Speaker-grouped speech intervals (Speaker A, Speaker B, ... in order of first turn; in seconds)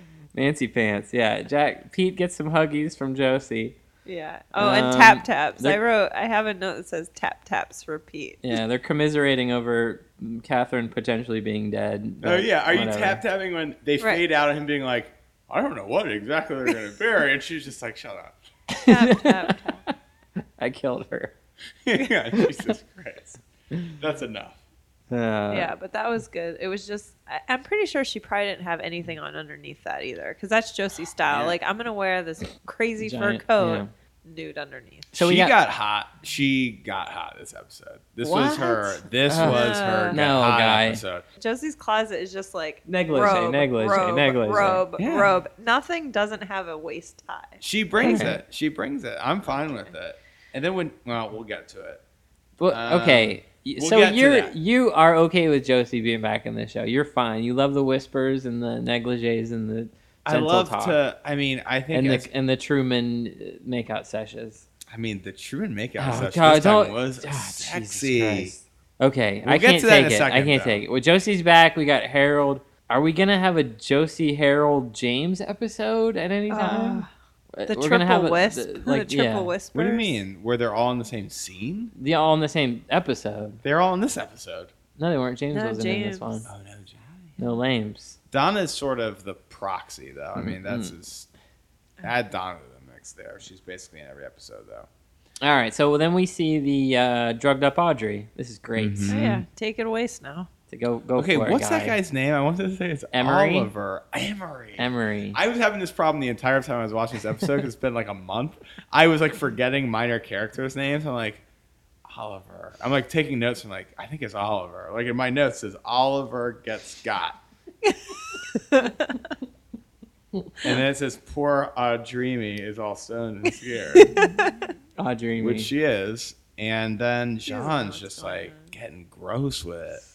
Speaker A: 0.3-3.8, 4.5-5.8, 8.4-13.2, 18.7-19.9, 20.6-21.3, 22.3-22.7, 25.1-25.7, 33.0-33.9, 35.1-35.5, 38.2-41.0, 42.9-44.8, 48.0-48.4, 52.6-61.0, 61.9-64.6, 66.0-79.5, 82.0-83.6, 85.0-86.5, 87.4-88.2, 90.3-90.9, 95.4-99.4, 100.7-102.0, 103.1-103.7, 104.8-105.4, 120.3-120.6, 125.0-125.7
Speaker B: 4.0-8.6, 18.9-19.8, 25.5-35.1, 39.4-40.2, 41.4-48.3, 76.5-77.1, 77.7-80.2, 85.5-86.5, 99.1-100.5, 117.8-119.2, 123.9-124.7, 127.5-128.7
Speaker C: 12.2-18.4, 21.8-24.6, 31.3-31.6, 35.1-41.2, 45.0-45.4, 47.6-52.0, 52.7-54.5, 60.2-62.3, 64.9-68.5, 69.4-70.8, 79.7-81.9, 83.6-84.7, 86.5-87.4, 88.3-91.3, 92.0-94.9, 98.8-99.3, 101.2-111.4, 112.0-117.4, 120.6-124.2, 125.4-130.0